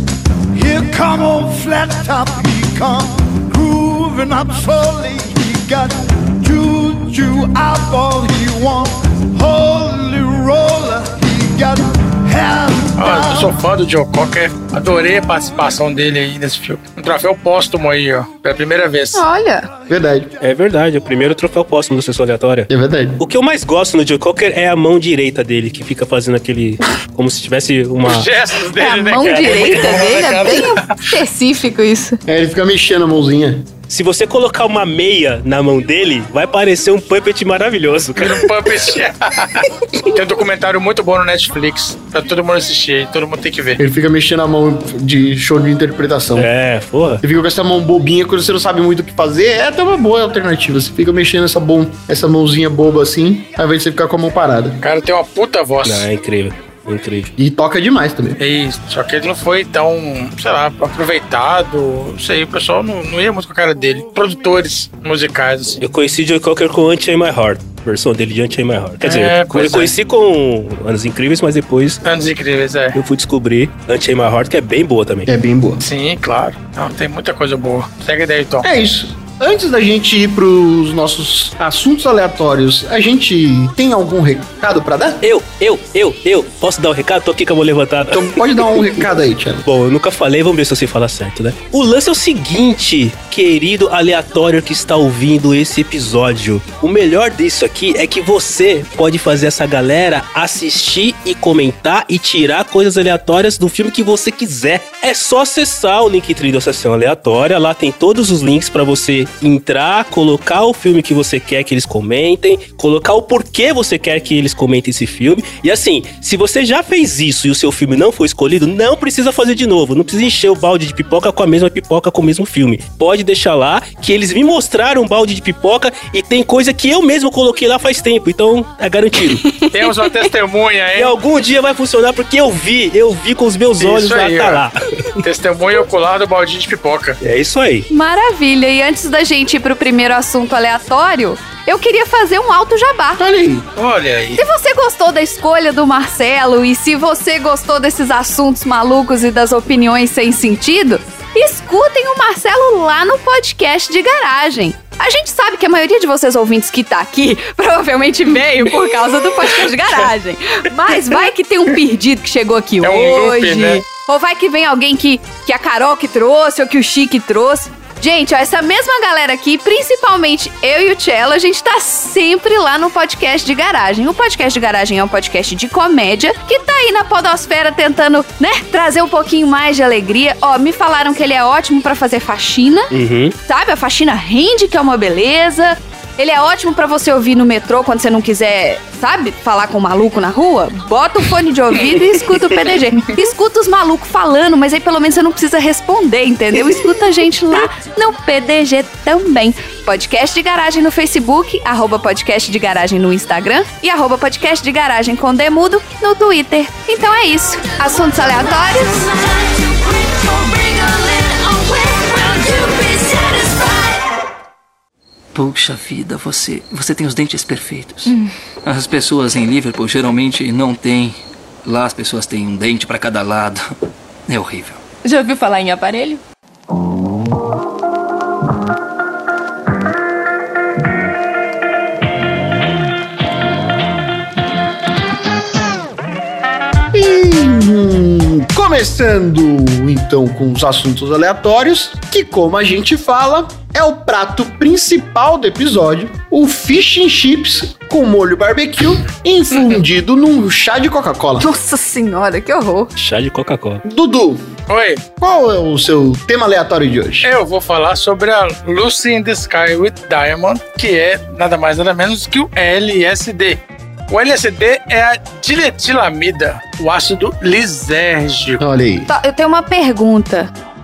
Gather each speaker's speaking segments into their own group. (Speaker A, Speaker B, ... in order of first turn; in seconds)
Speaker A: 0.5-13.6
Speaker B: 13.0-19.2, 28.0-31.1, 38.2-43.8, 54.8-56.1, 58.4-65.8, 69.0-69.9, 72.0-73.0, 75.8-78.7, 129.7-131.1, 133.8-134.6, 135.2-137.2, 143.8-144.4, 162.8-163.8, 254.7-255.0, 257.2-268.6
Speaker C: 19.1-19.7, 28.8-32.2, 137.9-143.2, 144.3-182.9, 183.5-209.1, 251.4-252.9, 269.1-270.5
Speaker D: 19.9-20.3, 22.7-23.2, 32.2-33.7, 43.8-46.5, 47.2-54.8, 57.4-58.4, 75.3-75.8, 78.6-85.2, 88.1-89.6, 143.2-143.7, 236.9-251.5, 253.8-254.5, 255.2-257.3, 268.6-269.1
Speaker E: 20.4-28.3, 33.9-38.5, 46.4-47.2, 55.8-57.3, 65.8-72.0, 72.9-75.3, 85.2-88.9, 89.6-129.5, 130.9-135.1, 137.2-137.9, 182.9-183.3, 253.0-253.8
Speaker F: 209.2-214.0, 225.1-225.5
Speaker G: 215.3-223.7, 224.3-224.8